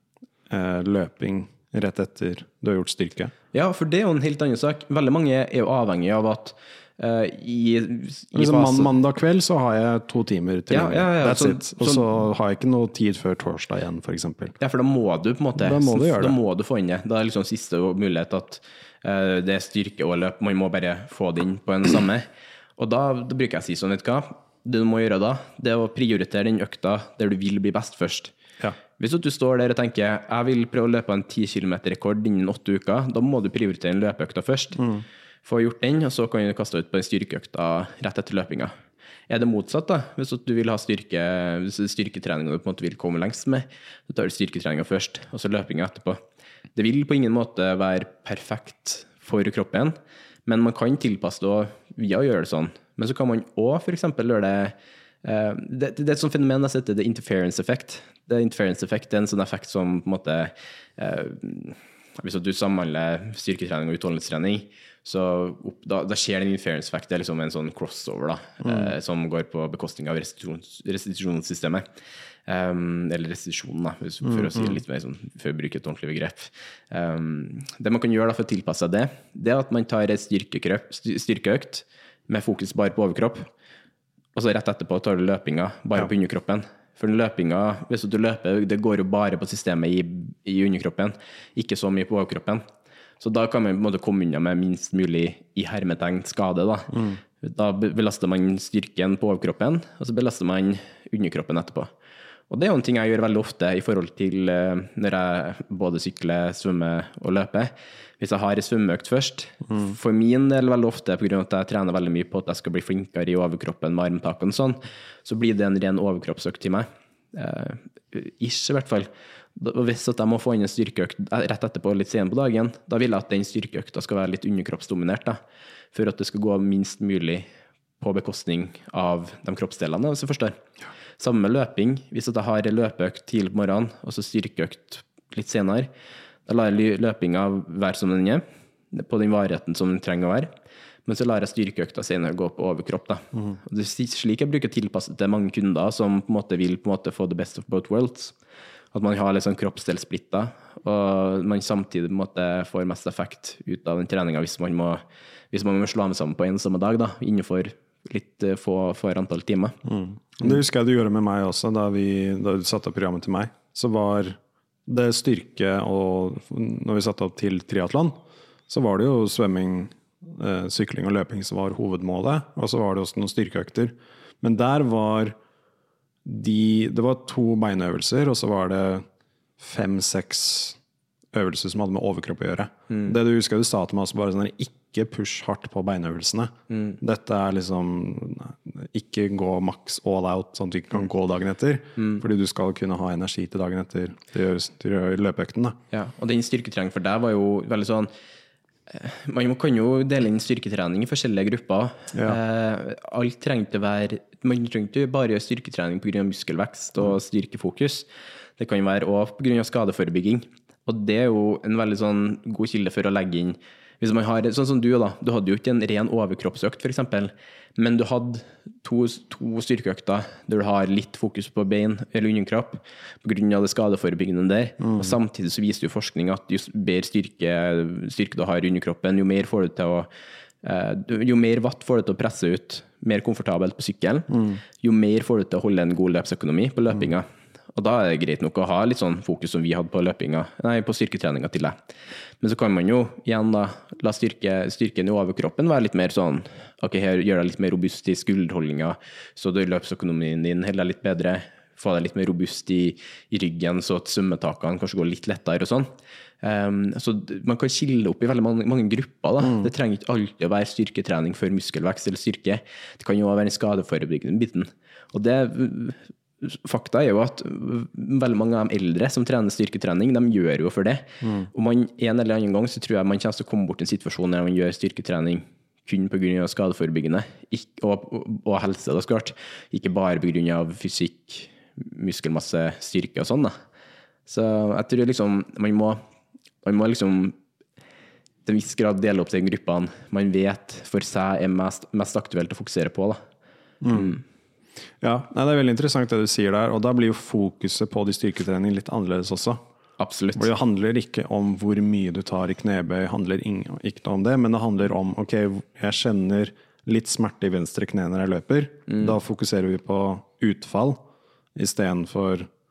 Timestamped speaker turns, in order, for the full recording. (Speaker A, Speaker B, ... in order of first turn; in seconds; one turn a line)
Speaker A: 0.5-3.3
Speaker B: 3.5-8.9
Speaker A: 8.3-14.6
Speaker B: 10.7-12.1
Speaker B: 14.6-28.3
Speaker A: 15.6-16.4
Speaker B: 29.0-34.8
Speaker A: 34.8-35.0
Speaker B: 35.4-38.7
Speaker B: 39.3-46.2
Speaker B: 46.7-71.8
Speaker A: 68.6-68.9
Speaker B: 72.5-83.5
Speaker A: 74.2-74.8
Speaker B: 84.3-92.6
Speaker B: 93.2-101.9
Speaker A: 96.9-97.2
Speaker B: 102.5-125.4
Speaker B: 125.9-127.5
Speaker B: 128.0-130.6
Speaker B: 131.2-135.9
Speaker B: 136.4-140.5
Speaker B: 141.1-148.3
Speaker B: 148.9-159.8
Speaker A: 159.8-175.3
Speaker A: 176.2-179.0
Speaker A: 179.6-180.8
Speaker A: 181.3-195.8
Speaker B: 182.9-183.1
Speaker B: 186.7-187.0
Speaker B: 192.0-192.2
Speaker B: 195.9-198.1
Speaker B: 198.9-208.1
Speaker A: 202.1-202.4
Speaker B: 208.6-230.1
Speaker A: 224.8-225.1
Speaker B: 230.6-241.8
Speaker A: 234.3-234.6
Speaker B: 242.4-255.9
Speaker B: 256.4-283.5
Speaker A: 259.4-259.7
Speaker A: 271.2-271.5
Speaker B: 284.3-286.0
Speaker B: 286.6-287.4
Speaker B: 288.4-293.2
Speaker A: 293.8-294.2
Speaker B: 293.9-294.2
Speaker A: 295.0-299.6
Speaker B: 300.0-300.5
Speaker A: 300.3-311.0
Speaker B: 308.9-309.1
Speaker A: 311.5-312.5